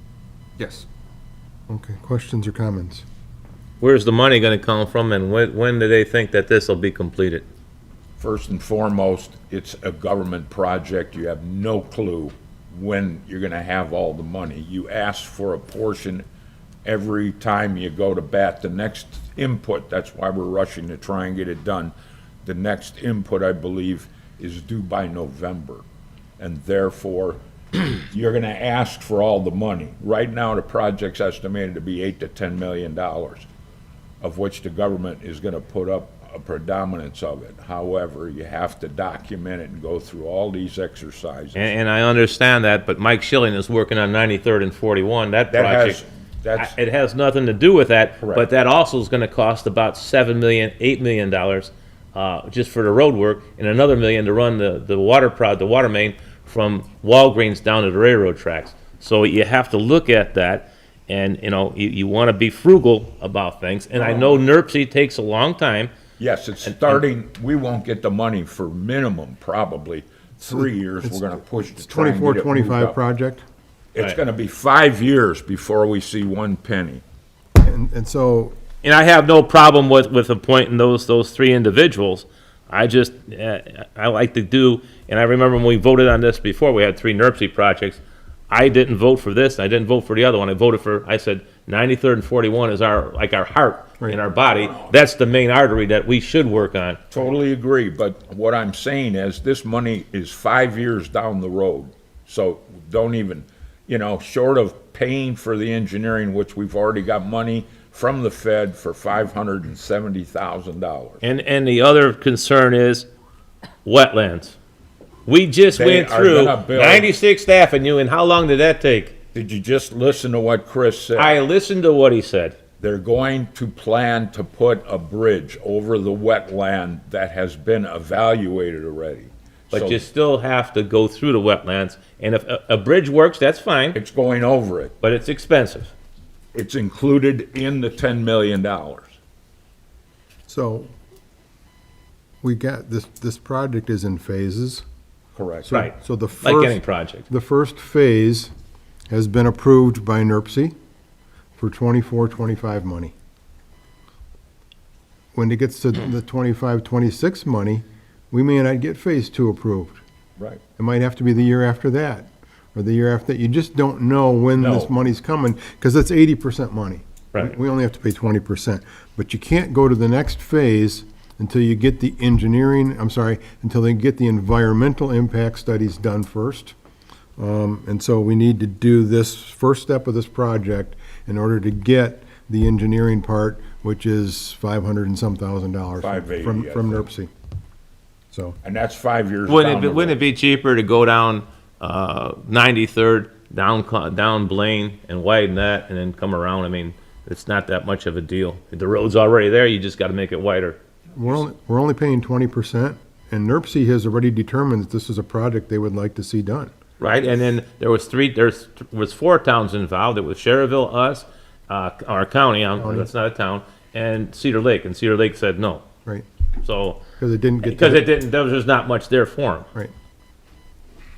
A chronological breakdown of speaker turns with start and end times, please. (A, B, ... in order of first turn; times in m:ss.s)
0:00.6-0:00.8 A
0:01.7-0:03.0 A
0:03.8-0:07.5 B
0:08.2-0:16.2 C
0:16.8-0:21.9 C
0:22.4-0:25.9 C
0:26.4-0:33.5 C
0:34.2-0:41.7 C
0:41.6-0:46.0 B
0:45.5-0:46.8 C
0:46.6-1:05.9 B
0:48.2-0:48.4 C
1:06.2-1:13.0 C
1:06.6-1:07.0 B
1:10.6-1:13.5 A
1:13.9-1:17.0 C
1:17.6-1:18.6 A
1:18.8-1:37.0 B
1:34.5-1:35.0 C
1:37.1-1:51.2 C
1:51.2-1:53.1 B
1:53.8-1:54.6 B
1:55.3-1:59.2 B
1:55.7-1:57.1 C
1:59.3-2:01.4 C
2:01.2-2:02.6 B
2:02.8-2:10.1 C
2:09.7-2:14.0 B
2:14.0-2:15.0 C
2:15.0-2:15.9 B
2:16.5-2:19.2 C
2:20.5-2:20.9 A
2:22.4-2:24.8 A
2:25.4-2:25.7 C
2:25.6-2:28.5 A
2:25.7-2:27.3 B
2:29.1-2:30.8 A
2:31.6-2:33.1 A
2:35.3-2:40.0 A
2:40.8-2:56.8 A
2:44.6-2:44.9 C
2:57.4-3:07.3 A
3:06.0-3:07.1 C
3:08.3-3:08.6 A
3:08.6-3:10.2 C
3:09.5-3:20.8 B
3:21.1-3:26.7 A
3:27.0-3:35.8 B
3:32.8-3:33.1 A
3:36.6-3:37.0 B
3:37.2-3:38.1 A
3:37.6-3:39.7 B